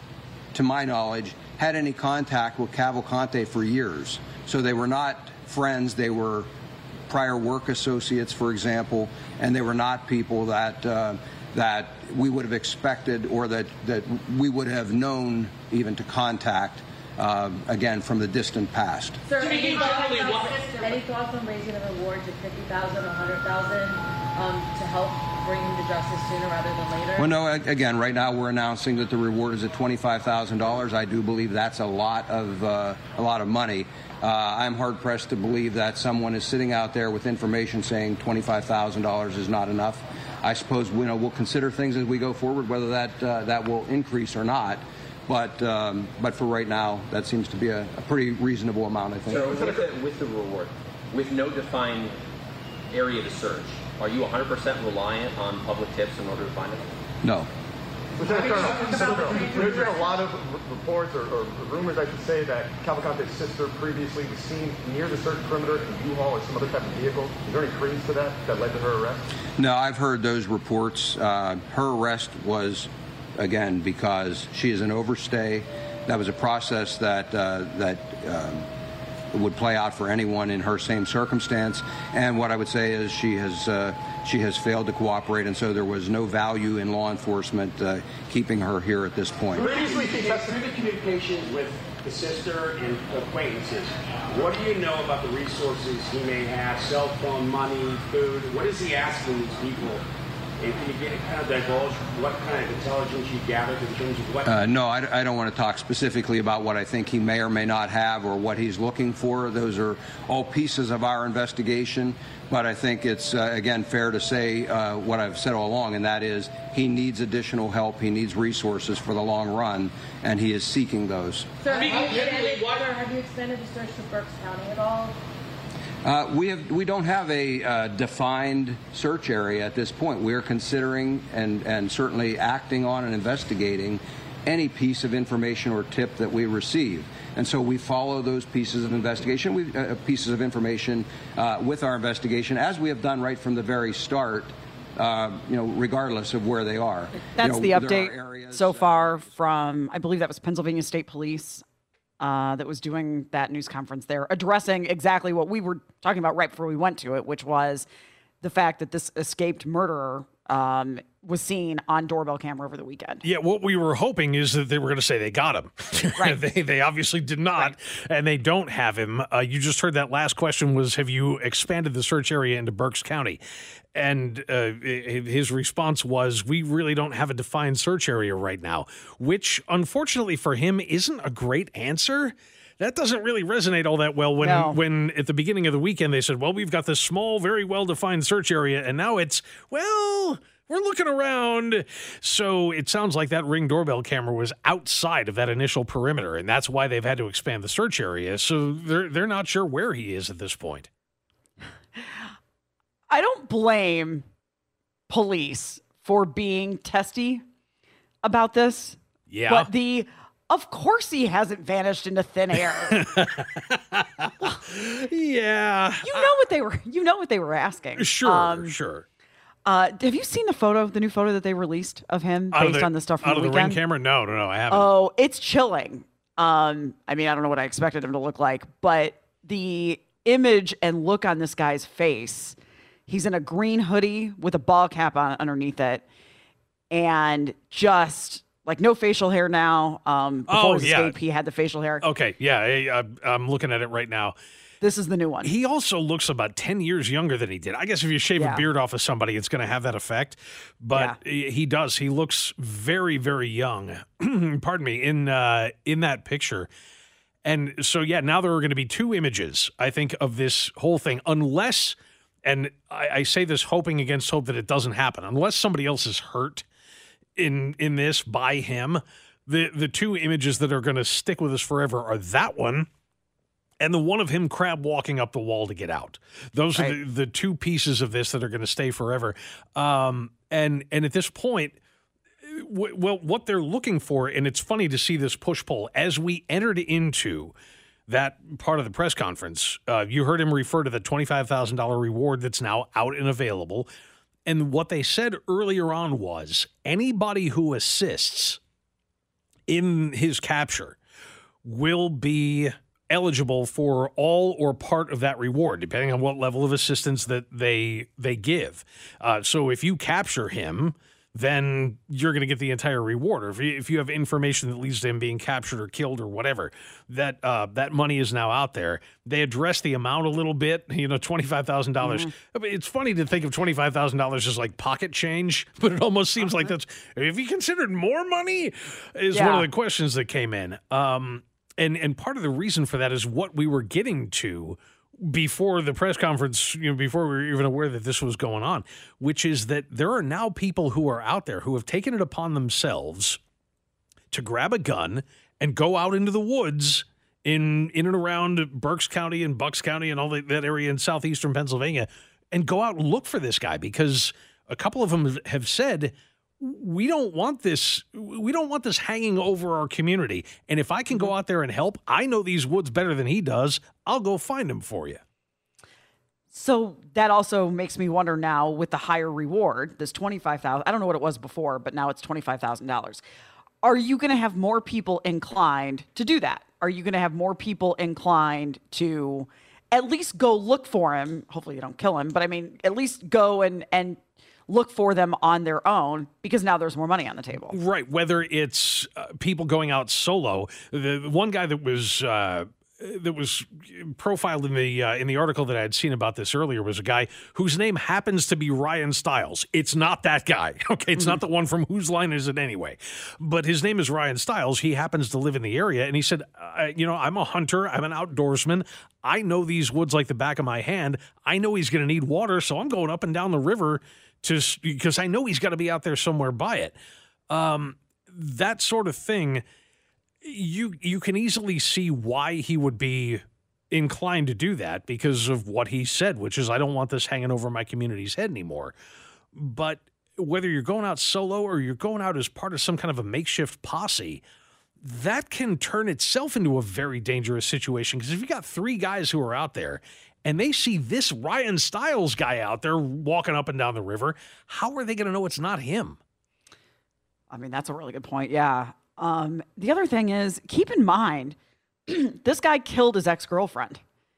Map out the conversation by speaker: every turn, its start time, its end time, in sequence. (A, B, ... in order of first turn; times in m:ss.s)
0:00.5-0:06.5 A
0:07.1-0:19.2 A
0:19.3-0:27.3 B
0:19.9-0:20.4 C
0:27.2-0:49.7 A
0:49.3-0:52.2 D
0:52.9-0:57.0 D
0:57.2-0:57.5 A
0:58.2-1:09.3 E
0:58.4-1:00.1 B
1:09.6-1:18.7 A
1:19.3-1:29.7 A
1:29.6-1:40.0 C
1:29.6-1:30.0 E
1:40.6-1:44.6 C
1:44.5-2:01.5 A
2:01.6-2:05.2 B
2:01.7-2:02.7 C
2:06.0-2:29.3 A
2:27.4-2:31.6 F
2:32.2-2:37.9 F
2:38.4-2:43.2 F
2:43.2-2:53.4 G
2:54.0-3:20.9 G
3:04.4-3:04.8 F
3:22.0-3:22.3 F
3:23.1-3:24.2 F
3:25.1-3:27.4 F
3:28.2-3:33.1 F
3:29.3-3:29.7 G
3:32.9-3:36.3 G
3:36.0-3:38.7 F
3:38.0-3:39.1 G
3:39.6-3:43.8 F
3:42.5-3:44.9 G
3:44.7-3:52.6 F
3:53.1-3:56.0 F
3:56.9-4:02.0 F
4:00.5-4:01.2 G
4:02.0-4:04.4 G
4:04.8-4:05.5 F
4:05.4-4:16.7 G
4:08.4-4:08.6 F
4:17.4-4:26.6 G
4:27.4-4:32.9 G
4:33.8-4:41.8 G
4:42.4-4:47.5 G
4:48.1-4:53.9 G
4:54.5-4:58.6 G
4:59.7-5:01.0 G
5:01.6-5:43.4 G
5:22.0-5:22.3 F
5:26.4-5:26.7 F
5:29.3-5:29.7 F
5:44.3-6:05.2 G
6:06.5-6:13.2 F
6:13.8-6:27.8 F
6:27.7-6:57.0 G
6:57.5-6:59.6 G
7:00.4-7:09.0 G
7:09.6-7:14.4 G
7:15.0-7:26.2 G
7:27.5-7:31.6 F
7:32.1-7:34.0 F